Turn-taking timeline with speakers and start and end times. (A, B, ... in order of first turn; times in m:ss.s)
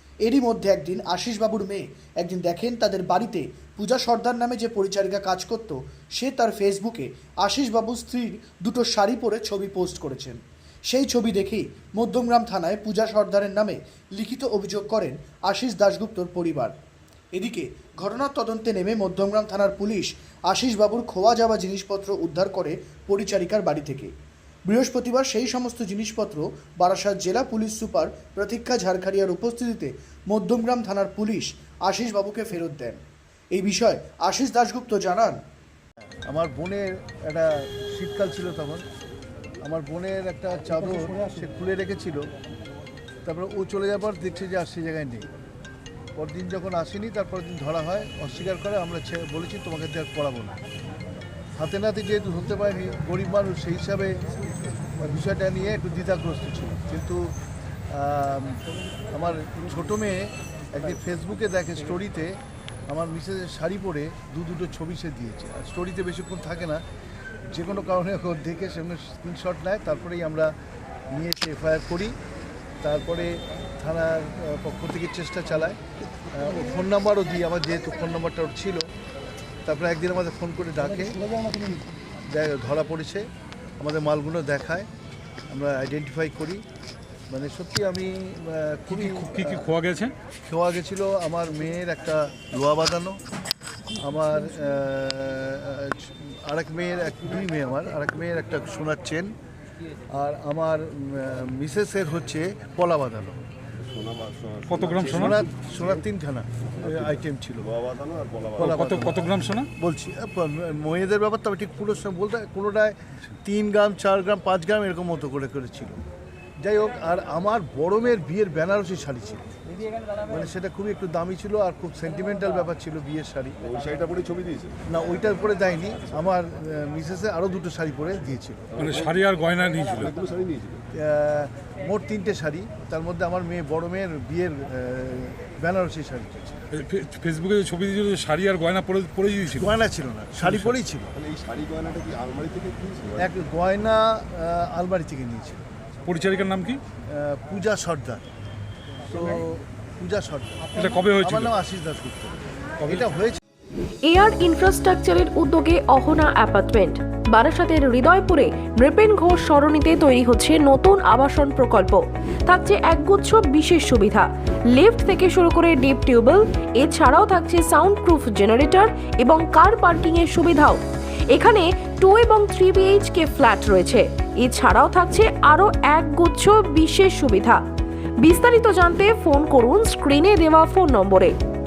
0:00.2-0:16.7 A
0:17.4-0:24.1 A
0:24.7-0:33.0 A
0:33.5-0:35.4 A
0:36.3-0:38.8 B
0:39.6-0:42.2 B
0:43.2-0:45.3 B
0:46.2-0:50.6 B
0:51.6-0:54.2 B
0:55.0-0:57.4 B
0:57.9-1:06.8 B
1:07.5-1:10.5 B
1:11.1-1:12.2 B
1:12.8-1:15.8 B
1:16.3-1:18.9 B
1:19.6-1:21.6 B
1:22.3-1:23.3 B
1:23.8-1:24.9 B
1:25.5-1:26.6 B
1:27.3-1:29.7 B
1:28.9-1:30.2 C
1:30.5-1:33.2 B
1:33.9-1:39.3 B
1:40.1-1:43.4 B
1:43.8-1:45.2 D
1:44.7-1:45.4 C
1:45.1-1:47.7 B
1:46.8-1:47.1 D
1:47.7-1:48.7 D
1:48.6-1:56.0 B
1:48.6-1:49.7 C
1:56.6-1:59.5 B
2:00.1-2:03.6 B
2:03.6-2:04.8 D
2:04.9-2:08.8 B
2:08.8-2:10.2 C
2:10.0-2:10.8 D
2:10.9-2:16.6 B
2:16.7-2:19.7 C
2:19.6-2:21.2 B
2:21.2-2:23.2 D
2:23.2-2:25.7 B
2:26.1-2:26.8 C
2:27.1-2:28.3 B
2:29.0-2:33.4 B
2:30.7-2:31.5 C
2:34.0-2:57.6 E
2:58.2-3:01.4 E